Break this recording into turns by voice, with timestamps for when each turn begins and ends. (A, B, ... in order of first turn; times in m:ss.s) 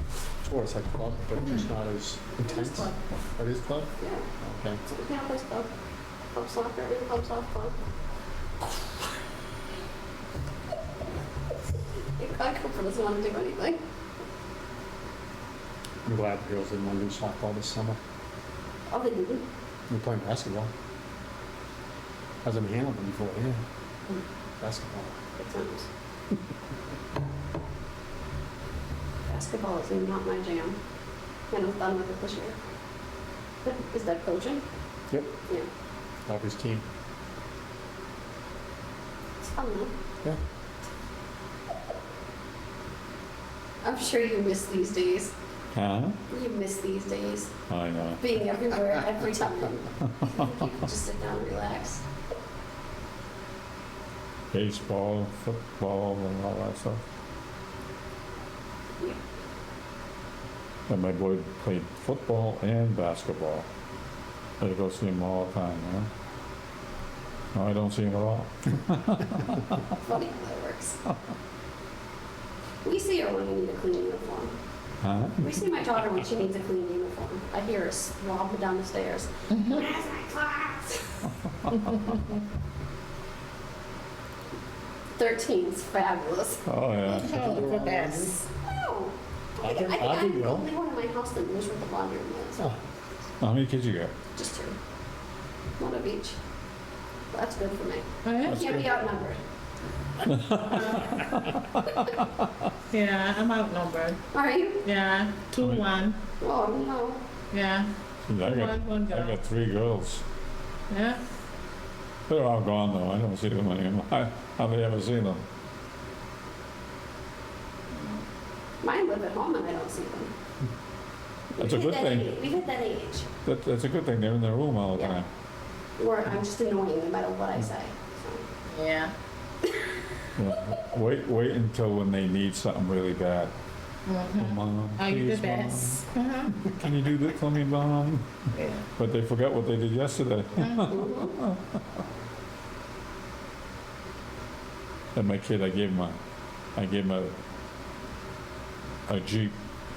0:00.4-0:03.9 A
0:02.5-0:02.9 B
0:04.0-0:04.3 B
0:04.4-0:04.8 A
0:04.9-0:05.7 B
0:06.3-0:07.8 B
0:12.2-0:13.8 B
0:16.0-0:18.0 A
0:18.9-0:19.5 B
0:19.9-0:20.7 A
0:22.4-0:23.6 A
0:24.6-0:25.2 A
0:25.4-0:25.9 B
0:29.3-0:30.8 B
0:31.5-0:32.6 B
0:33.6-0:34.6 B
0:36.3-0:36.8 A
0:39.4-0:39.9 B
0:43.8-0:45.3 B
0:45.7-0:46.2 C
0:46.3-0:47.5 B
0:47.7-0:48.2 C
0:48.2-0:52.0 B
0:54.5-0:57.0 C
1:00.9-1:03.7 C
1:04.6-1:06.1 C
1:07.5-1:09.7 C
1:10.0-1:11.0 B
1:12.8-1:14.6 B
1:15.0-1:15.4 C
1:15.4-1:21.3 B
1:25.2-1:26.6 B
1:26.7-1:27.6 C
1:27.1-1:28.4 A
1:27.2-1:28.4 D
1:28.6-1:32.7 B
1:29.6-1:30.7 A
1:33.4-1:34.1 C
1:34.4-1:34.8 B
1:35.8-1:36.4 B
1:37.3-1:39.4 B
1:38.2-1:38.6 D
1:38.5-1:38.9 C
1:40.3-1:41.6 C
1:42.9-1:44.2 D
1:44.3-1:44.9 B
1:44.8-1:46.2 D
1:45.6-1:46.0 C
1:46.4-1:47.2 B
1:47.5-1:47.9 D
1:48.3-1:50.2 C
1:48.4-1:49.3 D
1:50.9-1:51.2 D
1:52.3-1:55.4 C
1:58.8-2:00.3 B
2:01.6-2:03.3 B
2:01.6-2:02.4 C
2:03.4-2:05.3 C
2:06.0-2:08.4 B
2:08.7-2:09.1 D
2:10.4-2:13.5 C
2:14.1-2:16.6 D
2:14.4-2:18.4 C
2:18.6-2:18.8 D
2:19.0-2:21.8 C
2:20.6-2:20.9 D
2:20.9-2:21.4 B
2:25.2-2:26.2 C
2:26.8-2:27.3 C
2:29.1-2:29.5 C